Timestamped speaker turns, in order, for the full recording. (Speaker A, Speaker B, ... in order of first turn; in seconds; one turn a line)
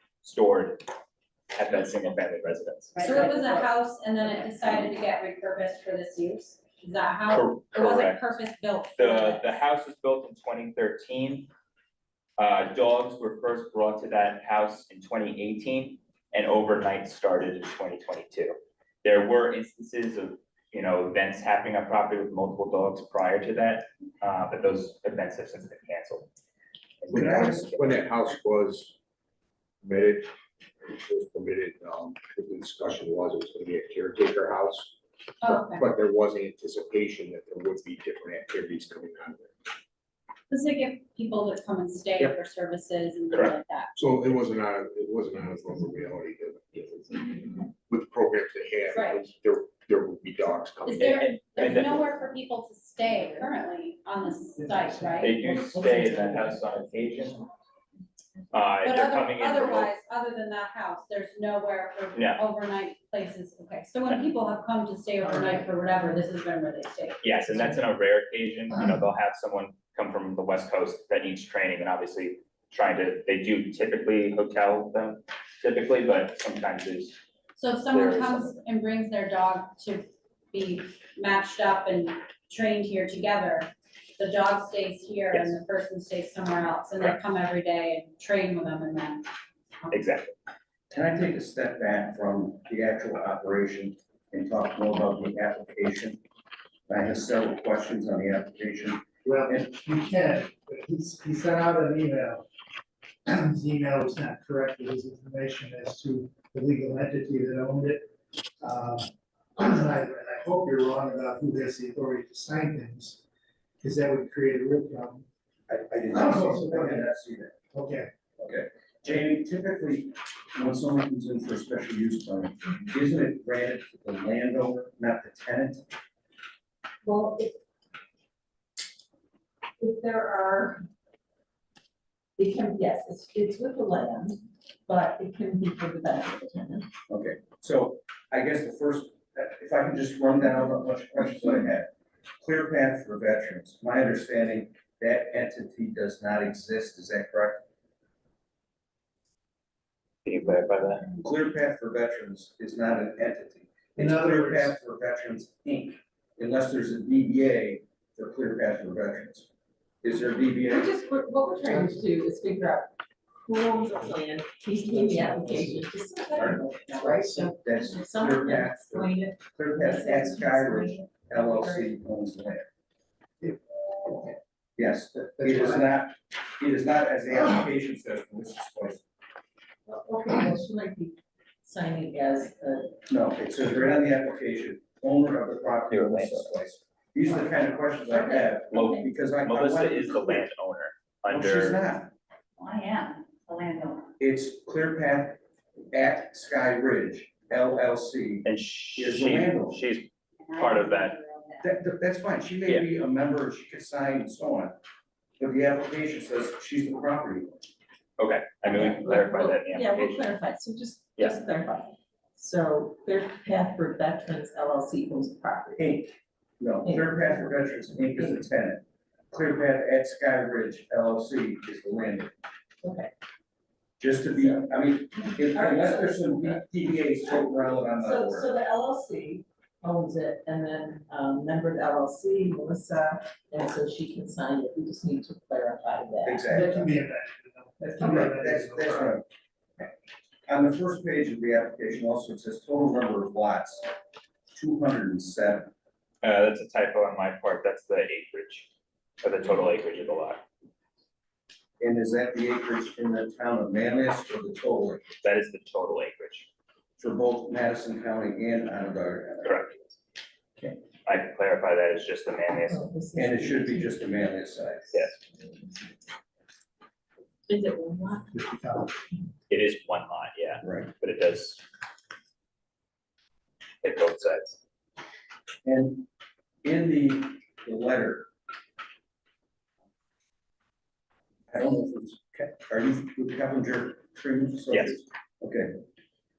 Speaker A: 0.2-0.8
Speaker A: 1.5-3.3
Speaker B: 3.0-3.6
Speaker C: 3.0-9.5
Speaker A: 4.5-4.9
Speaker A: 7.3-8.4
Speaker A: 9.0-11.5
Speaker A: 12.4-26.3
Speaker A: 27.0-28.0
Speaker D: 27.1-27.7
Speaker E: 27.1-28.9
Speaker E: 29.8-30.3
Speaker E: 30.8-39.6
Speaker C: 35.5-35.8
Speaker C: 40.5-43.9
Speaker A: 43.3-43.6
Speaker E: 44.0-51.4
Speaker C: 48.9-49.2
Speaker C: 50.9-55.3
Speaker A: 51.0-52.1
Speaker F: 54.6-56.6
Speaker A: 55.2-57.4
Speaker A: 58.5-59.9
Speaker C: 58.8-67.2
Speaker F: 65.3-65.6
Speaker A: 67.2-77.2
Speaker C: 77.6-89.3
Speaker A: 77.9-78.6
Speaker A: 89.9-90.3
Speaker D: 90.9-96.2
Speaker D: 96.9-99.7
Speaker F: 99.2-102.5
Speaker F: 103.3-113.2
Speaker F: 113.8-115.3
Speaker D: 115.7-117.5
Speaker F: 116.1-117.1
Speaker F: 117.7-118.1
Speaker D: 118.4-125.9
Speaker G: 127.0-127.6
Speaker G: 129.8-130.8
Speaker G: 132.4-136.9
Speaker D: 137.1-141.9
Speaker D: 142.4-147.6
Speaker A: 150.2-151.1
Speaker D: 151.2-159.5
Speaker F: 154.0-154.8
Speaker D: 160.0-160.9
Speaker G: 160.7-171.9
Speaker F: 164.9-165.9
Speaker D: 167.6-172.7
Speaker F: 173.4-174.3
Speaker D: 174.8-179.0
Speaker F: 175.4-175.8
Speaker G: 179.9-183.0
Speaker D: 183.1-190.5
Speaker A: 185.9-186.5
Speaker G: 188.1-189.1
Speaker A: 189.4-191.9
Speaker D: 191.3-192.1
Speaker B: 192.6-194.1
Speaker D: 194.2-195.4
Speaker D: 195.9-198.5
Speaker A: 198.4-201.1
Speaker D: 199.0-199.8
Speaker B: 200.4-201.7
Speaker D: 201.6-204.8
Speaker D: 205.4-207.6
Speaker A: 208.2-210.3
Speaker G: 208.7-216.0
Speaker A: 211.2-211.8
Speaker D: 215.8-222.3
Speaker G: 216.8-218.4
Speaker G: 222.8-223.1
Speaker D: 224.0-228.5
Speaker G: 224.3-224.7
Speaker G: 225.4-226.6
Speaker G: 227.2-236.9
Speaker D: 236.2-236.8
Speaker F: 236.5-239.2
Speaker D: 238.0-239.3
Speaker D: 240.5-243.9
Speaker D: 244.5-245.7
Speaker A: 246.2-248.7
Speaker A: 249.2-250.4
Speaker D: 251.8-255.0
Speaker A: 255.2-256.5
Speaker D: 257.0-259.9
Speaker A: 259.4-259.7
Speaker A: 260.6-262.9
Speaker G: 262.5-264.2
Speaker D: 263.1-265.1
Speaker G: 265.2-265.8
Speaker G: 267.5-268.3
Speaker F: 268.3-269.0
Speaker A: 269.5-271.6
Speaker D: 270.6-270.9
Speaker A: 273.8-274.6
Speaker D: 275.6-276.1
Speaker D: 276.6-278.3
Speaker D: 281.5-285.8